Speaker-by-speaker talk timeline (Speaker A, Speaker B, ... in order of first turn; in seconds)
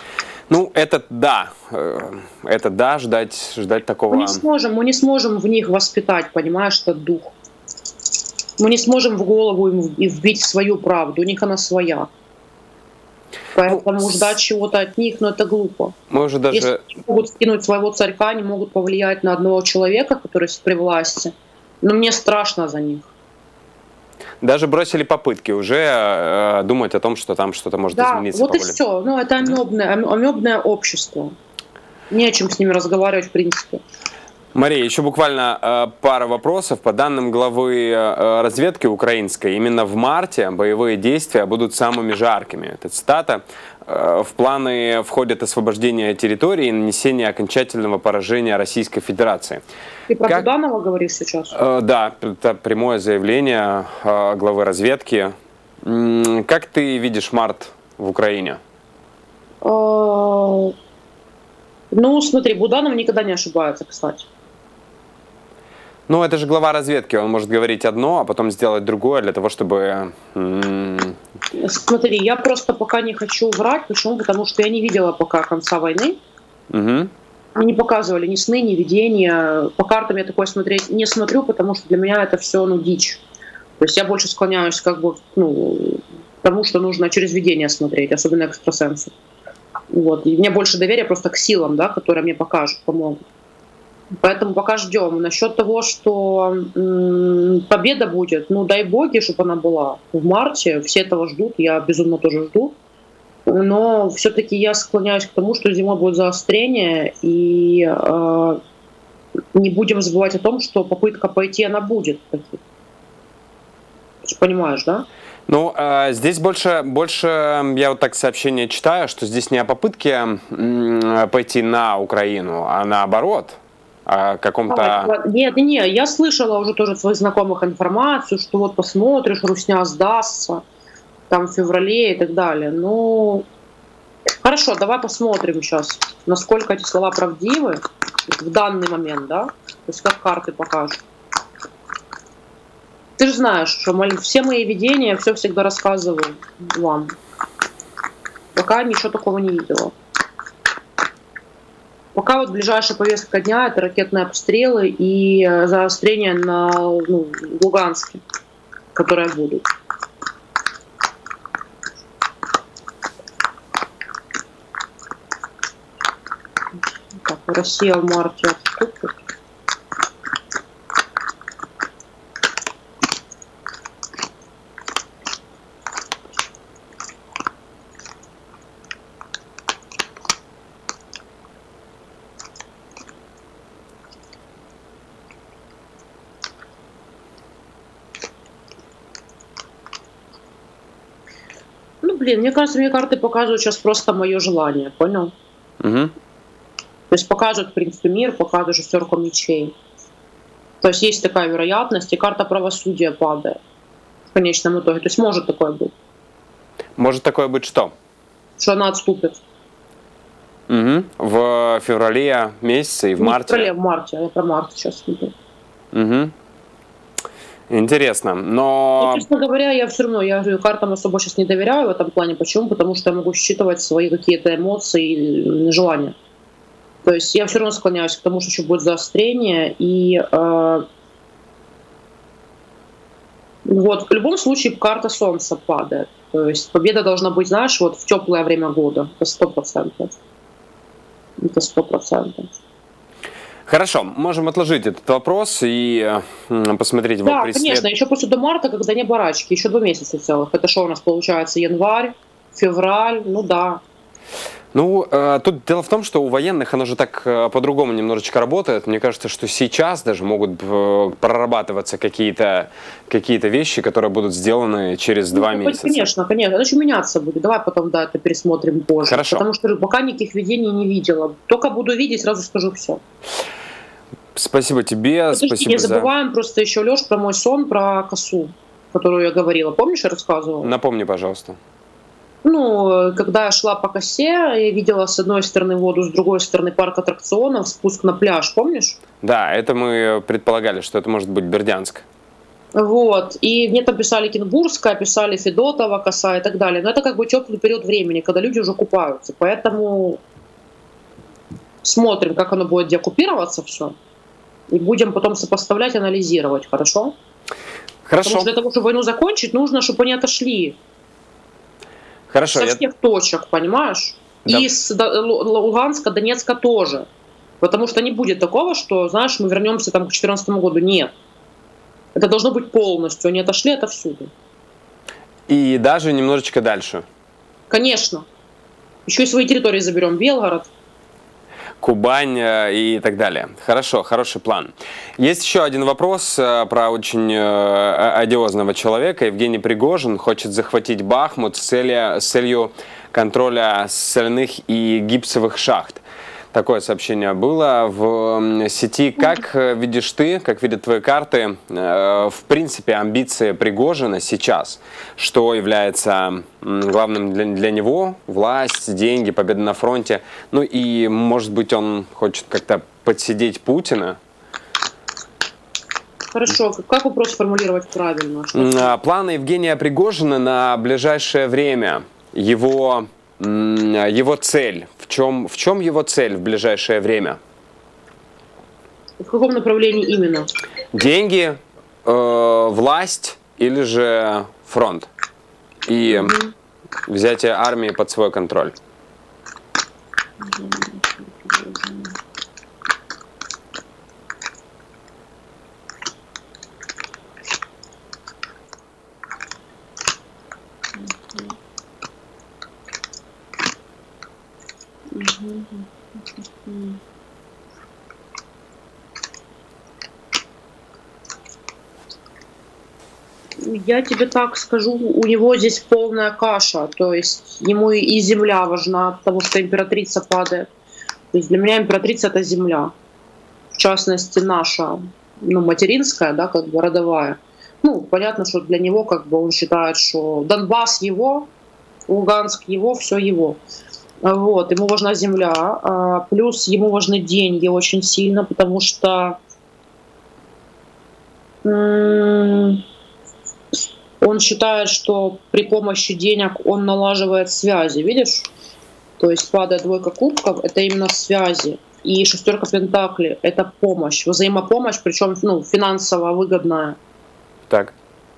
Speaker A: 0.5-4.4, 13.7-14.3, 16.1-16.8, 24.4-28.8, 34.5-49.6, 51.5-58.6, 66.1-71.2, 76.7-77.1, 115.5-125.1, 195.8-196.1, 207.0-207.9, 210.7-213.7, 215.9-216.3, 217.7-219.2, 243.7-247.8, 254.7-266.1, 269.1-269.4, 274.3-276.1, 280.6-281.6, 289.2-292.0, 308.1-308.5, 312.3-312.8, 325.5-327.0, 331.8-346.0, 346.5-364.2, 368.5-377.4, 380.9-385.1, 385.9-386.4, 387.1-388.7
Speaker B: 4.1-7.3, 8.6-12.1, 13.5-15.9, 16.5-23.1, 27.9-31.3, 32.1-33.8, 50.1-51.5, 59.6-60.7, 61.9-64.3, 71.5-76.2, 77.5-83.2, 83.8-89.1, 89.9-93.2, 94.1-102.8, 103.5-108.6, 109.5-112.6, 114.2-115.0, 124.7-130.6, 131.3-133.5, 134.4-141.0, 143.2-147.2, 148.5-149.9, 152.1-158.2, 158.9-159.7, 167.1-169.2, 192.0-195.3, 197.1-199.7, 200.8-203.6, 204.3-205.9, 208.6-209.4, 213.2-215.3, 219.0-226.2, 227.0-230.8, 233.6-240.1, 241.4-242.5, 247.2-253.8, 265.3-273.0, 275.3-280.7, 282.4-289.0, 292.7-300.2, 301.8-303.9, 304.7-307.1, 308.2-310.8, 312.5-317.1, 317.6-321.1, 322.1-324.3, 327.7-328.3, 329.1-330.7, 366.3-368.9, 379.2-380.5, 386.1-386.5, 390.4-392.1, 400.9-401.6, 405.1-407.0, 413.6-420.7, 421.3-422.9, 423.7-431.5, 432.1-433.6, 434.2-439.4, 441.6-442.8, 444.2-448.5, 449.2-457.0